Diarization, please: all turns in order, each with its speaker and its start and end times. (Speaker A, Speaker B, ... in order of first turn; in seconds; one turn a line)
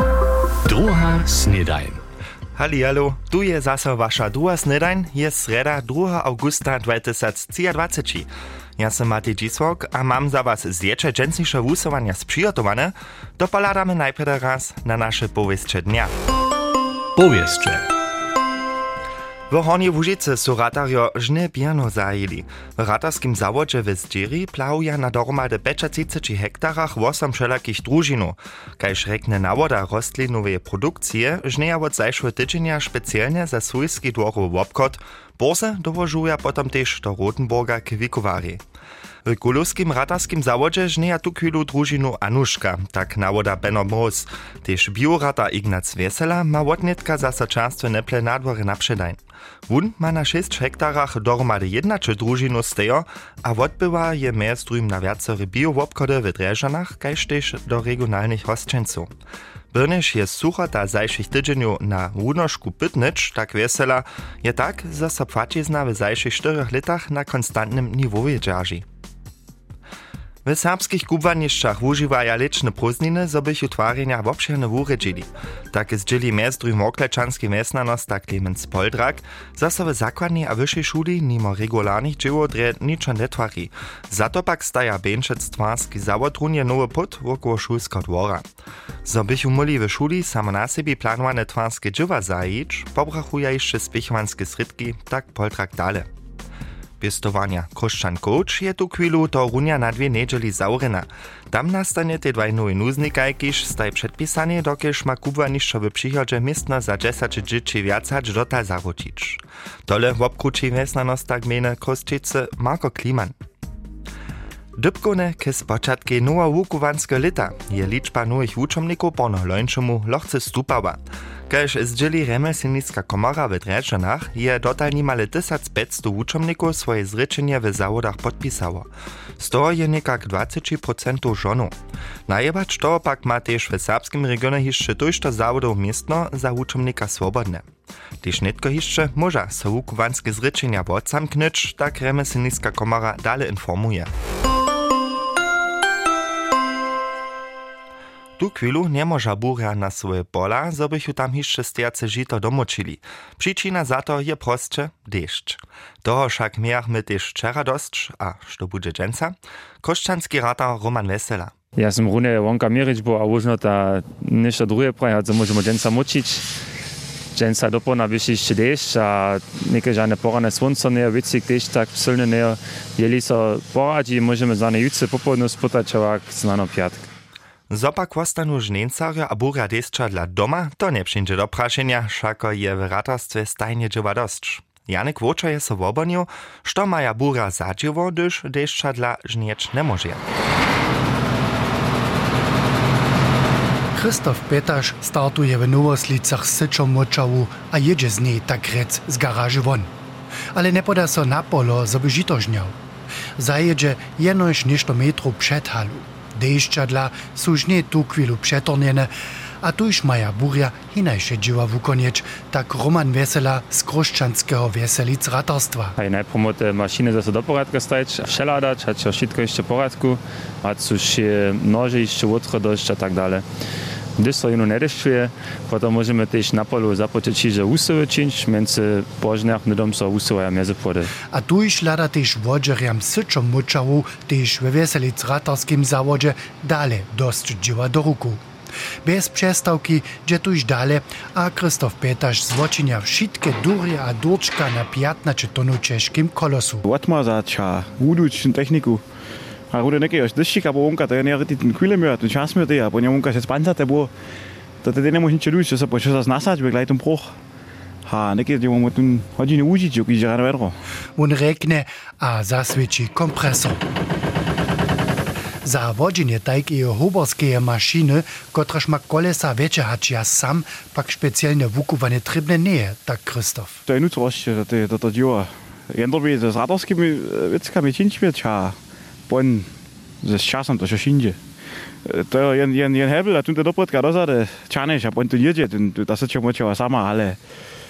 Speaker A: 0.7-2.0
Speaker B: 2.6-16.1
Speaker A: 17.2-17.9
Speaker B: 19.5-38.6
Speaker B: 39.3-59.1
Speaker B: 59.7-68.8
Speaker B: 70.5-88.5
Speaker B: 89.0-96.1
Speaker B: 97.0-113.3
Speaker B: 114.8-131.7
Speaker B: 132.3-137.7
Speaker B: 138.2-144.1
Speaker B: 148.4-161.5
Speaker C: 161.8-166.5
Speaker C: 167.3-177.1
Speaker B: 177.7-190.2
Speaker D: 194.0-199.9
Speaker D: 200.6-202.8
Speaker D: 203.4-209.1
Speaker D: 209.6-216.0
Speaker C: 216.0-223.4
Speaker C: 224.2-231.1
Speaker D: 231.3-238.4
Speaker D: 239.1-246.8
Speaker E: 246.9-249.0
Speaker E: 249.7-254.1
Speaker E: 254.8-257.3
Speaker E: 258.1-260.8
Speaker D: 261.2-263.8
Speaker D: 265.6-273.8
Speaker E: 273.9-278.8
Speaker E: 279.3-279.7
Speaker E: 280.2-281.4
Speaker E: 282.1-287.4